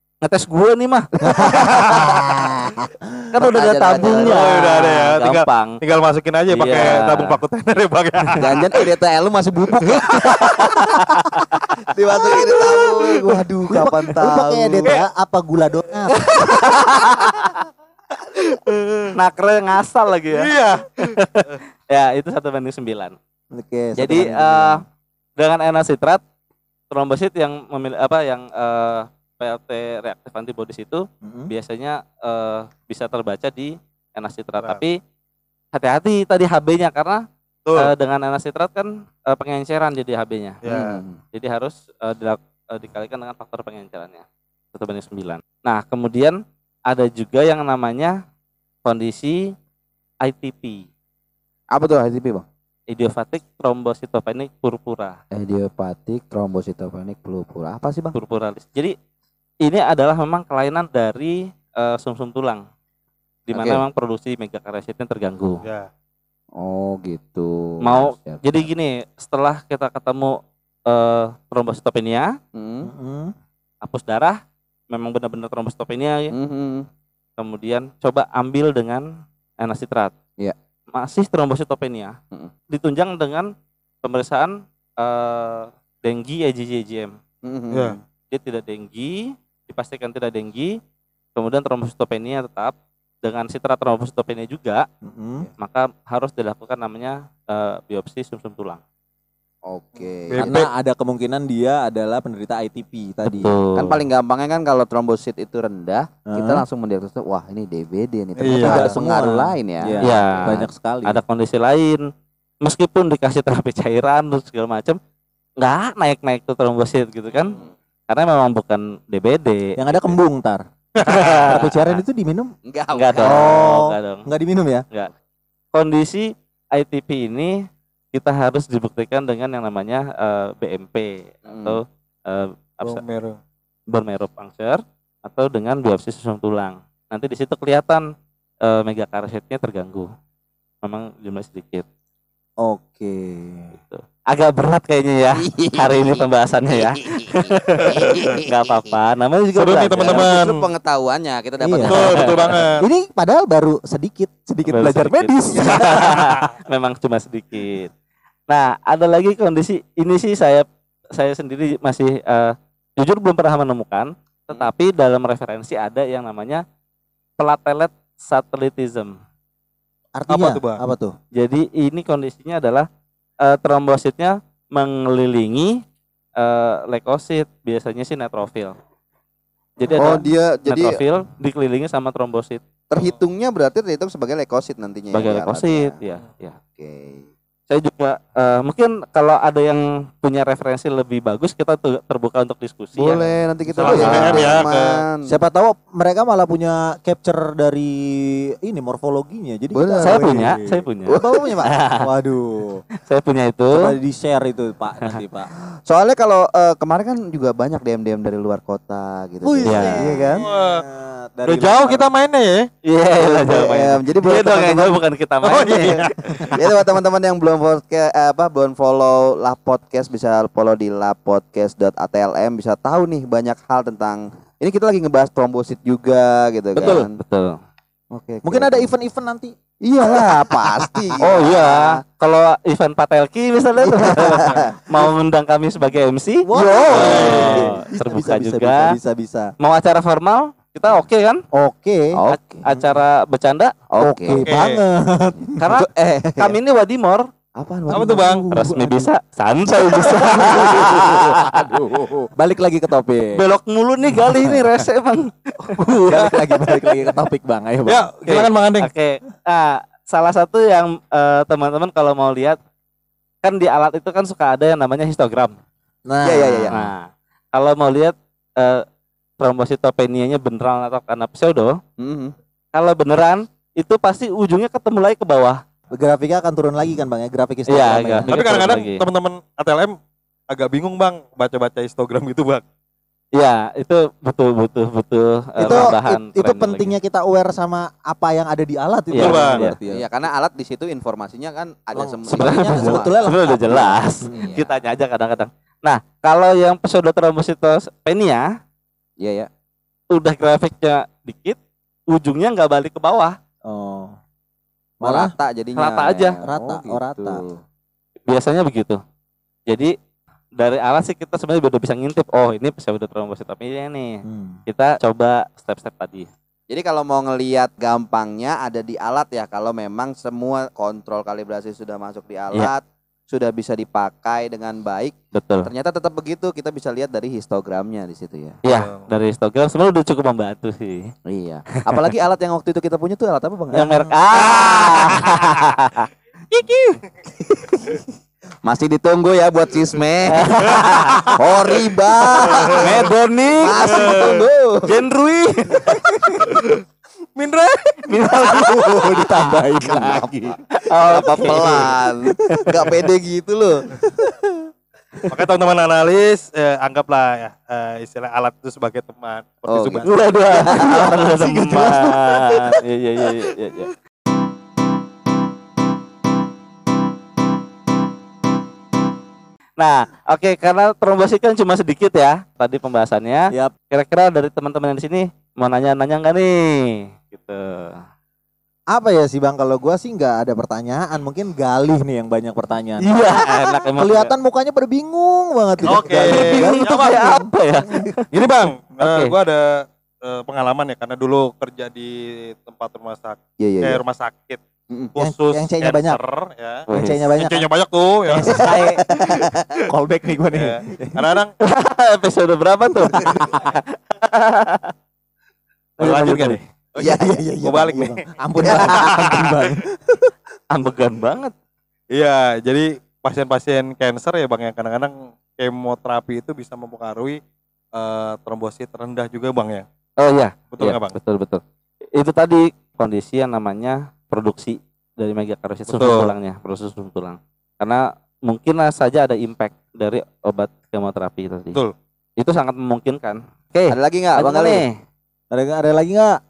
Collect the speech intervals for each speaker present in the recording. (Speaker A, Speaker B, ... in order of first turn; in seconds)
Speaker A: 0.2-1.9, 3.3-5.8, 6.5-7.4, 10.4-11.5, 16.2-17.5, 19.1-23.1, 24.0-24.8, 25.4-26.2, 26.9-35.0, 35.7-37.2, 37.8-40.6, 41.3-48.2, 48.8-49.5, 50.2-50.9, 52.9-55.2, 58.1-58.9, 59.6-62.6, 63.5-65.6, 67.8-72.3, 73.8-76.3, 77.4-79.1, 79.6-80.1, 80.9-82.2, 82.7-83.5, 84.0-87.1, 88.3-90.8, 91.3-94.8, 95.6-98.8, 103.3-104.0, 110.0-112.0, 112.6-115.0, 115.6-117.6, 118.1-120.2, 121.0-122.0, 122.9-124.2, 125.7-133.0, 133.9-138.0, 138.6-140.1, 140.8-141.8, 143.8-150.3, 151.9-152.6, 154.7-157.9, 158.5-166.6, 167.4-169.1, 171.3-172.9, 173.4-175.8, 176.4-178.8, 179.8-182.6, 185.1-186.6, 187.7-193.2, 193.8-194.6, 200.0-202.1, 203.0-203.9, 209.6-210.0, 212.8-216.6, 226.7-227.6, 231.2-238.9, 239.6-241.4, 242.3-243.7, 245.6-247.3, 248.5-251.7, 253.3-256.4, 258.2-262.6, 263.4-265.5, 266.7-268.8, 269.4-271.8, 272.7-275.6, 277.7-279.0, 283.3-286.9, 289.1-289.8, 292.3-298.5, 300.1-301.6, 302.1-303.4, 305.8-306.4, 308.3-309.0, 309.7-309.9, 310.6-316.3, 325.3-325.7, 328.6-331.1, 333.7-336.1, 340.3-341.3, 342.7-344.2, 344.8-346.5, 348.0-349.6, 350.8-351.9, 360.0-363.9, 369.8-378.0, 383.0-384.3, 385.8-388.2, 389.0-389.3, 396.9-397.3, 401.6-404.9, 406.0-406.6, 410.7-411.5, 420.2-421.6, 422.1-431.8, 432.4-434.9
Speaker B: 1.2-3.2, 13.7-16.2, 23.5-24.8, 31.2-31.5, 72.8-73.3, 95.0-95.5, 100.4-103.5, 106.3-106.6, 108.5-111.2, 119.8-120.6, 121.4-122.5, 123.2-124.8, 142.6-143.7, 151.6-152.0, 152.8-156.4, 170.2-171.1, 193.8-194.7, 195.3-202.8, 203.7-205.5, 209.4-212.1, 228.4-229.5, 230.1-231.2, 236.4-239.5, 241.5-242.2, 244.0-245.7, 247.9-249.0, 250.3-253.4, 254.1-254.7, 256.0-258.1, 266.1-266.7, 275.9-278.3, 285.6-290.1, 291.9-294.6, 303.7-304.1, 305.0-305.3, 306.4-307.4, 314.2-314.6, 340.7-341.3, 345.8-346.5, 348.3-350.6, 351.2-352.6, 353.9-354.6, 361.3-361.7, 378.9-388.1, 395.2-396.2, 396.9-397.7, 398.3-401.2, 403.0-403.6, 407.0-410.3, 435.5-436.4
Speaker C: 1.4-2.0, 4.0-8.8, 9.8-11.0, 18.4-19.1, 20.3-21.6, 37.6-37.9, 40.6-41.0, 65.6-65.9, 87.7-88.0, 100.3-100.7, 108.4-108.9, 121.0-121.6, 132.8-133.4, 147.8-148.2, 149.5-150.7, 151.8-152.8, 170.3-170.8, 193.8-195.0, 210.4-210.8, 211.5-212.7, 215.4-216.6, 236.9-237.7, 244.4-244.8, 247.9-248.4, 257.9-258.9, 278.3-279.9, 280.5-282.6, 289.1-289.6, 328.7-329.1, 334.6-335.0, 343.9-344.4, 346.4-346.8, 347.4-348.0, 355.3-362.3, 385.8-387.4, 388.3-394.6, 395.1-396.8, 397.4-398.7, 400.5-401.5, 406.0-409.7, 412.1-417.4, 417.9-419.9, 420.7-421.1, 425.9-426.3
Speaker D: 3.4-4.5, 8.4-10.5, 11.9-15.0, 40.6-41.2, 51.7-52.5, 55.3-58.1, 63.5-63.8, 66.5-68.7, 72.5-72.9, 76.3-76.9, 87.4-88.0, 99.7-100.5, 103.7-110.5, 122.6-123.7, 131.4-131.8, 145.3-149.0, 150.0-152.5, 179.9-181.0, 182.9-185.9, 186.8-187.3, 192.9-195.3, 199.7-200.4, 201.1-201.7, 205.8-210.4, 213.2-215.0, 216.5-227.1, 228.1-228.9, 229.8-232.0, 233.8-234.8, 236.5-237.6, 242.1-242.8, 243.9-244.5, 245.7-246.6, 247.6-248.4, 266.2-266.9, 272.0-272.3, 285.6-285.9, 289.9-294.8, 299.2-299.5, 305.0-307.6, 316.7-328.6, 331.3-335.2, 338.6-340.5, 341.4-343.1, 343.6-344.9, 349.9-350.3, 350.9-353.8, 359.7-361.2, 393.6-394.0, 398.6-399.6, 407.0-407.4, 408.7-408.9, 433.9-434.8